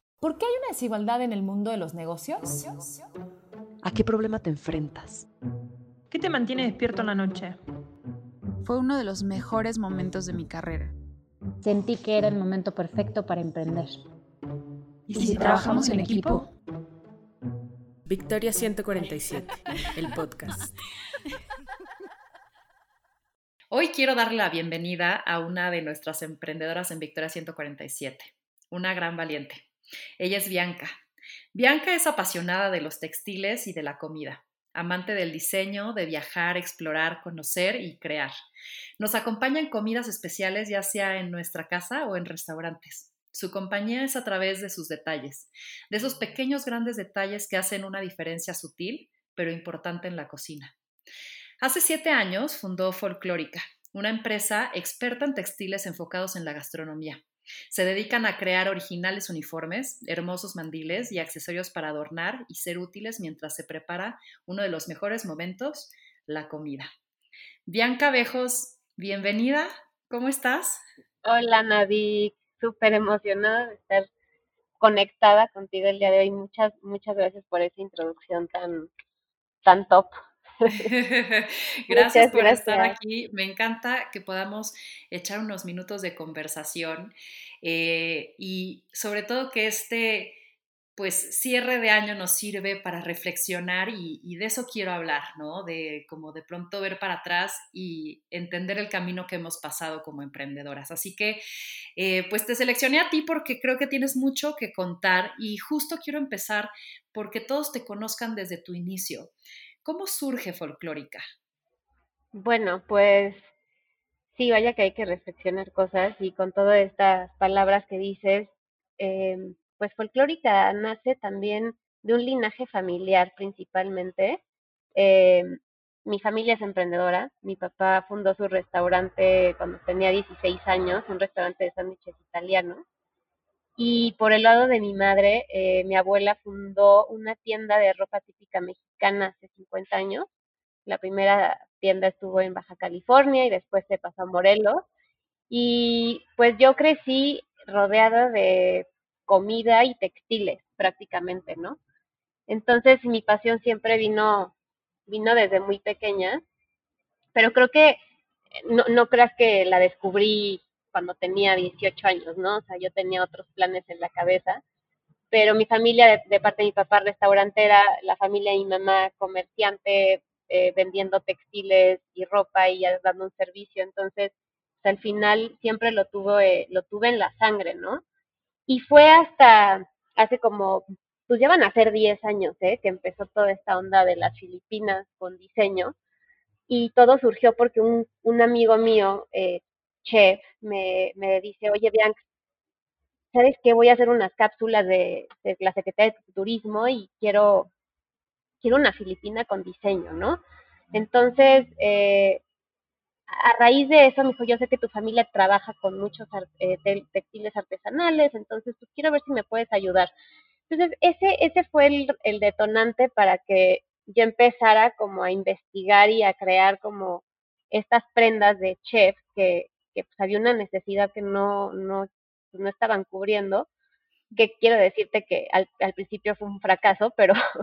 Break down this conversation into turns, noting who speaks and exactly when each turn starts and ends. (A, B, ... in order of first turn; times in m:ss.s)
0:00.2-0:03.0 A
0:04.0-0:04.3 B
0:06.1-0:07.6 C
0:08.6-0:10.9 D
0:11.6-0:14.0 E
0:15.1-0:16.4 C
0:15.1-0:16.5 E
0:15.2-0:16.3 D
0:15.4-0:16.0 F
0:18.1-0:20.7 F
0:23.7-0:29.6 B
0:30.2-0:31.0 B
0:31.5-0:38.3 B
0:39.0-0:50.7 B
0:51.6-1:06.9 B
1:07.6-1:10.8 B
1:11.2-1:14.1 G
1:14.8-1:18.9 G
1:19.6-1:20.9 G
1:20.7-1:30.4 B
1:21.9-1:22.9 G
1:31.0-1:41.4 B
1:42.0-1:51.2 B
1:52.3-1:53.4 G
1:54.3-2:04.4 G
2:04.9-2:12.8 G
2:13.8-2:20.3 G
2:20.8-2:24.8 G
2:25.5-2:31.8 G
2:32.5-2:34.5 G
2:35.1-2:36.4 G
2:37.3-2:38.0 G
2:38.6-2:44.6 G
2:45.3-2:58.0 G
2:58.7-3:05.9 G
3:06.7-3:12.2 G
3:13.3-3:17.7 G
3:18.6-3:20.4 G
3:20.9-3:22.4 G
3:23.3-3:30.1 G
3:30.7-3:43.7 G
3:44.4-3:47.4 G